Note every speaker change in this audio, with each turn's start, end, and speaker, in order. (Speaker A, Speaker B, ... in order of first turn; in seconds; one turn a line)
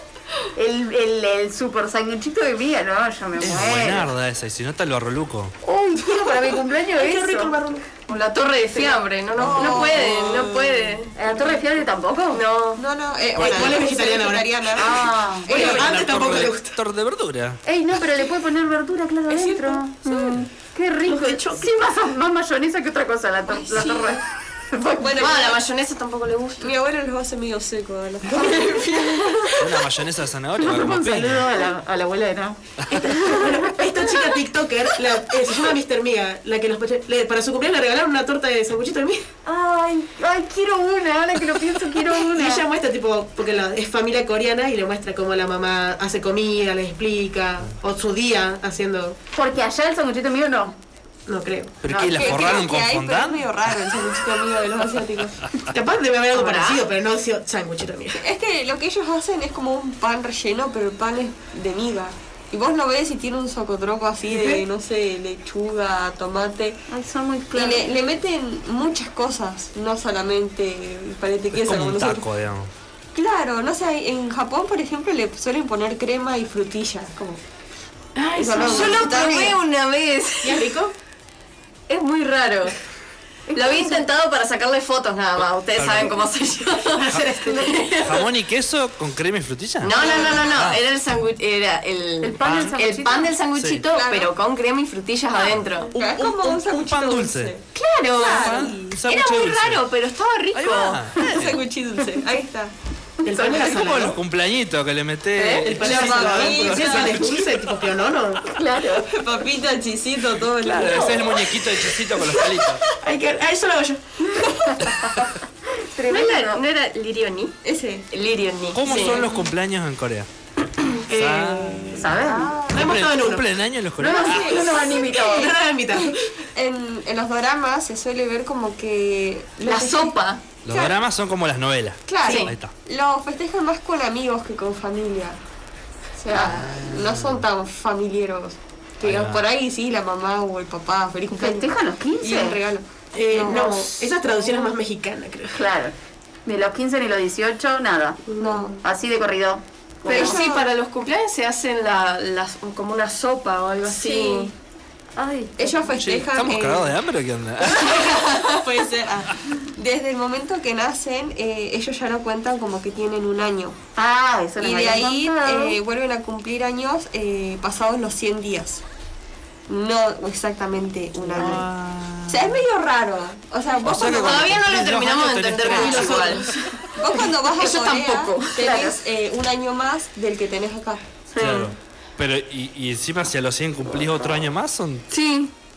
Speaker A: 0.6-4.1
Speaker B: 3.4-5.6
Speaker A: 5.6-10.4
Speaker C: 6.9-7.9
Speaker D: 8.3-11.2
Speaker E: 9.4-10.7
Speaker A: 11.1-12.4
Speaker D: 12.3-12.8
Speaker E: 12.8-16.2
Speaker B: 13.4-13.8
Speaker C: 13.4-16.8
Speaker A: 14.8-16.0
Speaker B: 15.5-17.6
Speaker A: 17.6-20.0
Speaker E: 19.3-20.4
Speaker A: 20.7-25.6
Speaker C: 21.1-21.6
Speaker E: 23.6-24.2
Speaker E: 25.0-25.5
Speaker D: 25.2-26.7
Speaker E: 26.6-29.6
Speaker D: 29.0-29.4
Speaker B: 29.6-31.5
Speaker A: 30.6-34.3
Speaker C: 32.9-39.3
Speaker A: 39.5-42.7
Speaker C: 42.2-49.2
Speaker A: 49.3-50.8
Speaker C: 51.3-51.8
Speaker B: 51.8-53.7
Speaker A: 51.9-52.6
Speaker E: 52.1-55.4
Speaker C: 55.7-58.2
Speaker D: 56.3-56.8
Speaker E: 58.2-66.8
Speaker C: 64.3-64.7
Speaker A: 66.9-67.9
Speaker E: 67.5-72.3
Speaker B: 71.5-72.7
Speaker E: 73.1-77.4
Speaker C: 78.2-79.5
Speaker D: 78.4-80.7
Speaker E: 78.4-79.5
Speaker A: 78.4-79.5
Speaker C: 80.4-80.9
Speaker D: 81.9-82.8
Speaker A: 83.5-84.0
Speaker D: 83.5-88.3
Speaker B: 85.8-86.2
Speaker C: 86.9-88.0
Speaker B: 88.0-90.8
Speaker D: 89.8-95.9
Speaker E: 90.0-90.6
Speaker A: 92.2-93.3
Speaker B: 92.4-92.8
Speaker B: 93.5-93.9
Speaker E: 93.9-94.3
Speaker E: 95.9-97.7
Speaker B: 96.0-97.5
Speaker D: 97.8-101.0
Speaker E: 98.2-98.9
Speaker B: 98.2-99.8
Speaker B: 100.5-101.6
Speaker E: 101.2-102.7
Speaker C: 103.2-104.2
Speaker A: 103.3-104.0
Speaker B: 103.6-107.6
Speaker D: 105.4-105.7
Speaker C: 105.6-108.4
Speaker E: 105.7-107.2
Speaker A: 108.5-109.2
Speaker E: 109.0-111.5
Speaker B: 110.6-112.8
Speaker A: 110.8-111.5
Speaker C: 113.0-114.4
Speaker A: 114.3-116.6
Speaker D: 116.1-117.6
Speaker E: 117.6-118.1
Speaker D: 118.1-119.3
Speaker B: 118.7-120.3
Speaker E: 118.9-119.4
Speaker C: 121.1-123.5
Speaker B: 121.1-124.8
Speaker A: 121.9-122.6
Speaker E: 122.1-123.0
Speaker A: 124.0-125.5
Speaker E: 124.0-130.2
Speaker C: 124.9-126.3
Speaker D: 129.6-130.4
Speaker B: 130.7-132.7
Speaker E: 130.7-131.0
Speaker E: 132.1-135.4
Speaker D: 132.3-132.5
Speaker E: 136.2-144.7
Speaker B: 136.3-137.4
Speaker B: 139.0-139.4
Speaker A: 141.3-142.6
Speaker C: 143.1-145.7
Speaker A: 145.6-145.9
Speaker A: 146.4-148.3
Speaker C: 148.3-148.7
Speaker E: 148.4-148.8
Speaker A: 148.8-150.4
Speaker E: 150.1-150.7
Speaker D: 150.1-154.5
Speaker E: 153.9-154.5
Speaker A: 155.2-155.8
Speaker E: 155.6-157.0
Speaker B: 155.9-158.2
Speaker E: 157.7-163.8
Speaker D: 158.1-158.6
Speaker A: 163.9-165.8
Speaker E: 164.6-168.8
Speaker E: 169.7-171.7
Speaker B: 171.3-172.6
Speaker E: 172.3-174.6
Speaker B: 173.8-176.5
Speaker D: 174.0-176.5
Speaker A: 175.7-176.1
Speaker C: 175.7-176.6
Speaker E: 176.9-181.1
Speaker D: 177.6-178.6
Speaker A: 178.6-179.0
Speaker D: 181.3-181.7
Speaker B: 181.3-185.1
Speaker D: 185.1-185.5